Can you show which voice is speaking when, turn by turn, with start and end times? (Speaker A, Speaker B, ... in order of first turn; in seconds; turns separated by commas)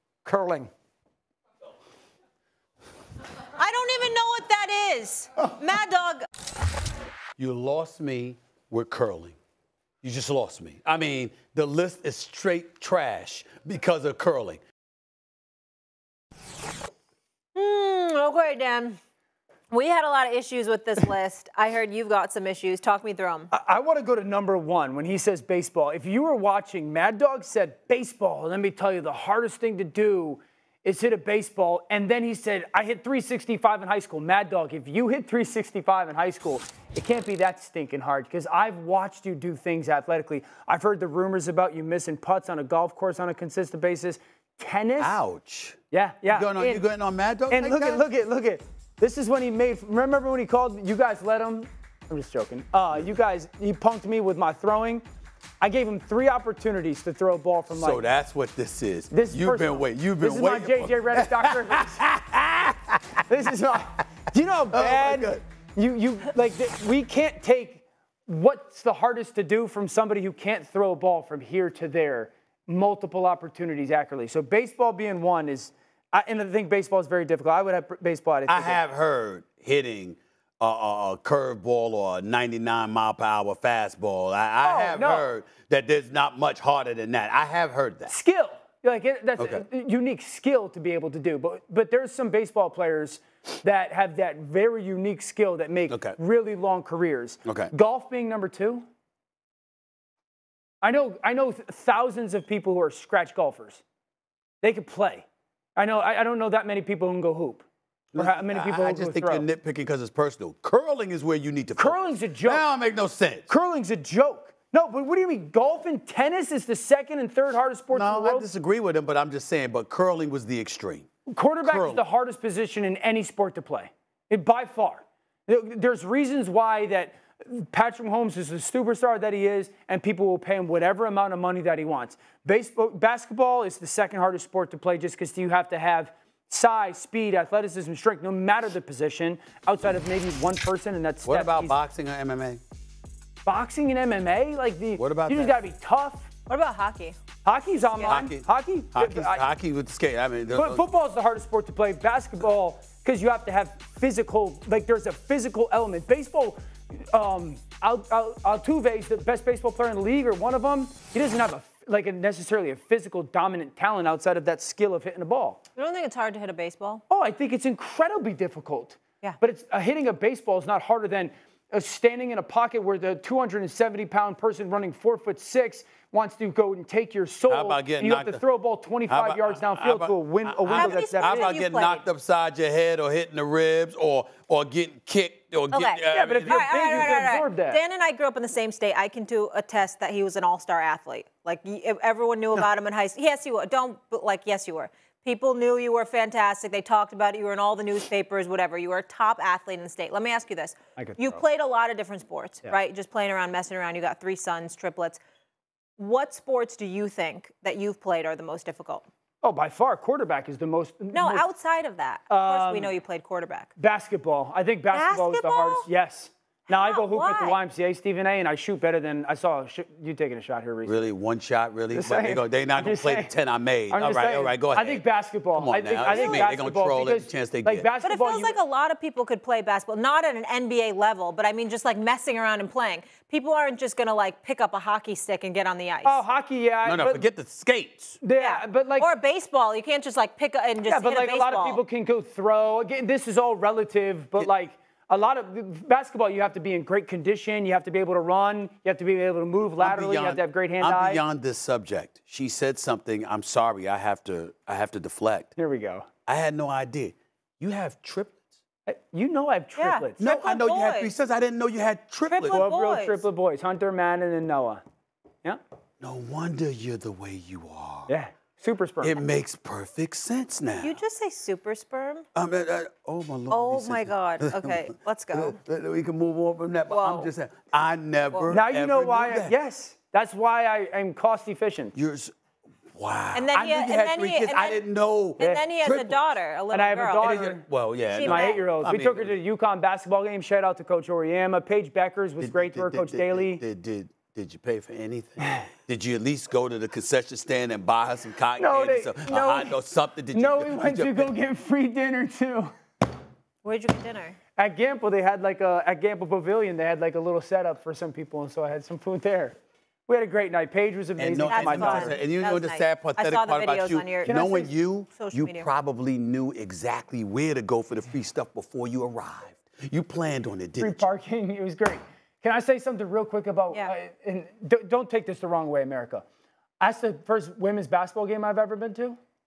Speaker A: 0.2-0.7, Speaker B: 3.6-6.3, Speaker C: 7.4-9.4, Speaker C: 10.0-14.6, Speaker B: 17.6-19.0, Speaker B: 19.7-23.5, Speaker A: 23.5-45.2, Speaker C: 45.0-48.0, Speaker A: 45.9-46.8, Speaker A: 47.5-55.0, Speaker A: 55.6-58.0, Speaker C: 57.7-63.3, Speaker A: 59.1-62.0, Speaker A: 63.3-78.8, Speaker C: 64.7-65.4, Speaker C: 78.5-88.1, Speaker A: 84.6-85.3, Speaker A: 88.1-98.8, Speaker C: 89.4-89.7, Speaker C: 95.9-96.2, Speaker C: 97.5-97.7, Speaker A: 100.8-103.8, Speaker A: 104.6-105.2, Speaker A: 105.8-109.5, Speaker C: 108.2-113.5, Speaker A: 111.8-112.7, Speaker A: 113.5-118.5, Speaker C: 117.9-121.1, Speaker A: 121.3-141.8, Speaker C: 121.6-122.0, Speaker C: 141.2-142.6, Speaker A: 143.4-146.3, Speaker C: 145.0-145.6, Speaker B: 146.5-147.2, Speaker A: 147.4-149.5, Speaker B: 147.8-148.2, Speaker C: 148.1-150.8, Speaker A: 150.5-165.6, Speaker B: 165.8-167.0, Speaker A: 167.1-181.5, Speaker C: 177.5-178.4, Speaker C: 179.1-187.2, Speaker B: 180.7-182.0, Speaker B: 185.7-205.2, Speaker A: 186.1-187.8, Speaker A: 201.0-201.4, Speaker B: 206.0-209.1, Speaker A: 209.4-211.5, Speaker B: 211.1-213.7, Speaker A: 212.3-212.9, Speaker A: 213.8-221.1, Speaker B: 214.9-215.9, Speaker B: 216.7-217.6, Speaker C: 220.8-227.9, Speaker A: 221.9-223.3, Speaker A: 223.9-228.6, Speaker B: 226.1-226.5, Speaker B: 228.0-236.2, Speaker A: 236.0-237.3, Speaker C: 236.8-238.2, Speaker A: 238.2-239.1, Speaker B: 238.4-241.8, Speaker A: 240.9-251.2, Speaker C: 249.8-255.5, Speaker A: 255.6-256.1, Speaker C: 256.3-258.4, Speaker A: 258.9-260.2, Speaker B: 259.8-261.1, Speaker C: 260.2-262.7, Speaker B: 262.3-263.2, Speaker A: 262.5-264.8, Speaker C: 266.0-268.1, Speaker A: 268.1-269.2, Speaker C: 269.0-271.0, Speaker B: 270.8-272.3, Speaker C: 272.4-279.6, Speaker B: 273.5-275.6, Speaker B: 276.9-277.3, Speaker A: 278.5-281.9, Speaker C: 281.9-282.3, Speaker C: 282.9-286.3, Speaker B: 283.3-284.8, Speaker B: 285.4-287.3, Speaker A: 286.7-287.7, Speaker C: 287.2-289.4, Speaker B: 288.1-288.6, Speaker A: 288.2-293.6, Speaker C: 292.4-301.3, Speaker A: 295.4-295.7, Speaker A: 298.6-299.8, Speaker A: 300.3-302.7, Speaker B: 303.6-304.4, Speaker A: 304.6-312.2, Speaker C: 311.2-321.1, Speaker B: 311.5-315.7, Speaker A: 314.2-314.7, Speaker A: 320.8-326.2, Speaker A: 326.8-329.2